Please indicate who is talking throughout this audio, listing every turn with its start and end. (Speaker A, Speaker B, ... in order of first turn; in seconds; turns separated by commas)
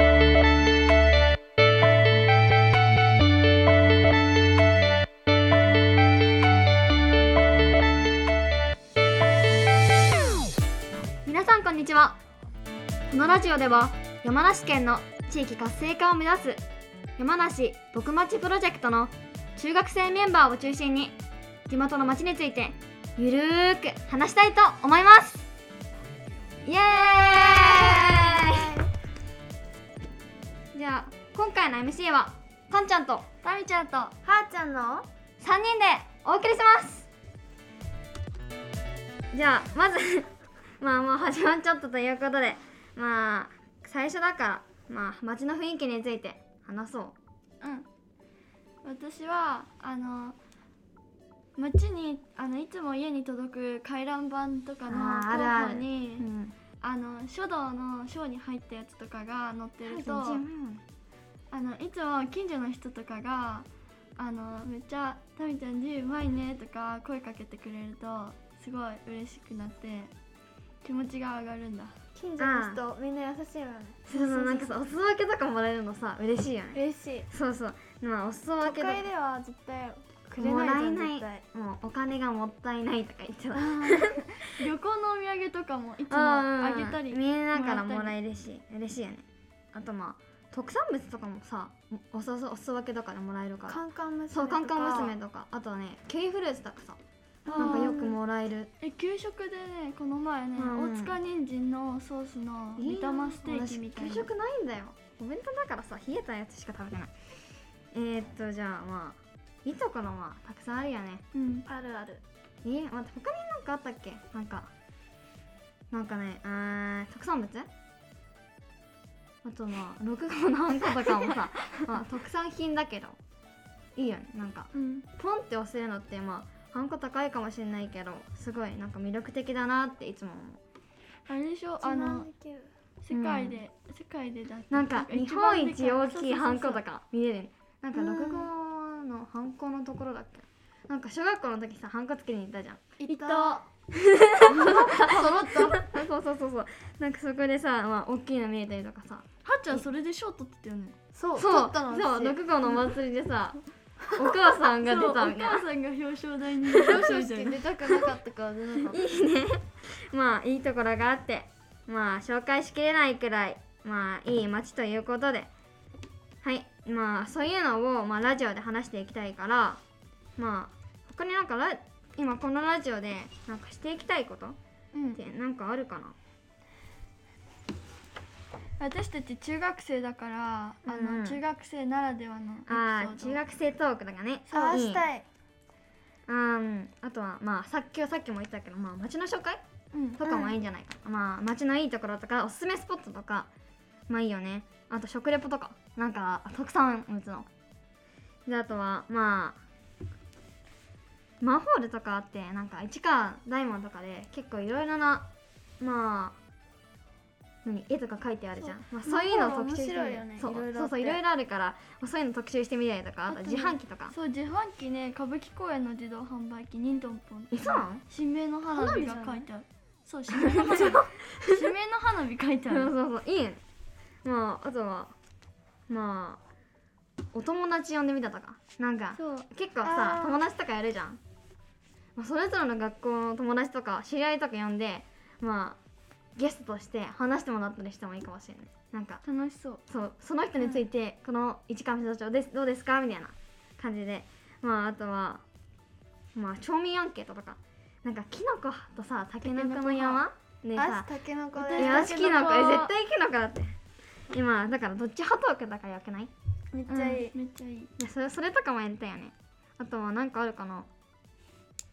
Speaker A: 11.2-12.2, Speaker A: 13.1-16.6, Speaker A: 17.2-21.2, Speaker A: 21.7-25.5, Speaker A: 26.6-28.8, Speaker B: 27.3-28.9, Speaker A: 30.7-33.3, Speaker C: 33.4-34.1, Speaker B: 34.2-35.1, Speaker A: 35.4-37.1, Speaker A: 39.3-47.2, Speaker C: 47.6-47.9, Speaker C: 48.8-50.4, Speaker C: 51.6-56.3, Speaker A: 54.9-56.5, Speaker C: 56.8-60.5, Speaker A: 59.8-60.8, Speaker C: 61.5-70.1, Speaker C: 70.8-71.9, Speaker B: 72.2-74.7, Speaker A: 72.4-72.8, Speaker A: 74.1-79.1, Speaker B: 76.7-77.3, Speaker B: 78.6-81.4, Speaker A: 80.4-84.4, Speaker C: 83.6-88.2, Speaker A: 86.1-97.0, Speaker B: 93.7-95.2, Speaker C: 97.5-98.1, Speaker B: 97.5-98.1, Speaker A: 97.6-98.7, Speaker C: 98.8-104.3, Speaker A: 100.6-101.2, Speaker A: 102.8-107.1, Speaker A: 107.9-111.2, Speaker C: 111.3-111.7, Speaker B: 111.7-112.2, Speaker A: 112.6-114.7, Speaker A: 115.9-117.7, Speaker A: 119.4-123.2, Speaker A: 124.0-130.6, Speaker C: 124.7-125.1, Speaker C: 131.2-132.3, Speaker B: 131.8-132.7, Speaker C: 133.0-136.8, Speaker A: 133.1-133.6, Speaker A: 134.7-142.8, Speaker B: 138.0-138.5, Speaker C: 143.0-143.6, Speaker B: 143.1-143.6, Speaker A: 144.0-149.8, Speaker C: 144.6-145.8, Speaker B: 145.1-145.5, Speaker C: 149.4-151.0, Speaker B: 151.1-152.4, Speaker A: 151.3-153.6, Speaker A: 154.1-155.6, Speaker C: 154.8-158.0, Speaker B: 156.8-159.0, Speaker A: 158.9-165.5, Speaker A: 166.4-169.8, Speaker A: 170.4-174.6, Speaker C: 174.9-175.2, Speaker A: 175.1-176.2, Speaker C: 178.8-183.4, Speaker A: 180.9-181.4, Speaker A: 182.7-185.1, Speaker B: 184.5-185.2, Speaker A: 186.3-189.6, Speaker C: 189.9-190.4, Speaker A: 190.2-193.5, Speaker A: 194.1-197.5, Speaker A: 198.5-199.6, Speaker A: 201.4-205.2, Speaker A: 205.8-206.4, Speaker A: 207.7-214.1, Speaker B: 209.0-211.2, Speaker C: 213.3-222.9, Speaker A: 217.5-218.0, Speaker B: 218.7-219.5, Speaker A: 220.5-221.6, Speaker A: 222.7-223.6, Speaker A: 224.2-225.1, Speaker A: 225.9-226.4, Speaker A: 227.3-231.2, Speaker C: 229.2-229.5, Speaker B: 229.8-230.4, Speaker A: 232.2-235.8, Speaker A: 236.4-239.2, Speaker C: 239.2-239.8, Speaker A: 239.9-245.4, Speaker A: 246.3-251.1, Speaker C: 249.4-250.2, Speaker B: 250.8-252.1, Speaker C: 251.5-252.9, Speaker A: 251.8-253.7, Speaker A: 254.3-256.3, Speaker B: 256.7-257.3, Speaker C: 256.9-257.9, Speaker A: 258.0-260.9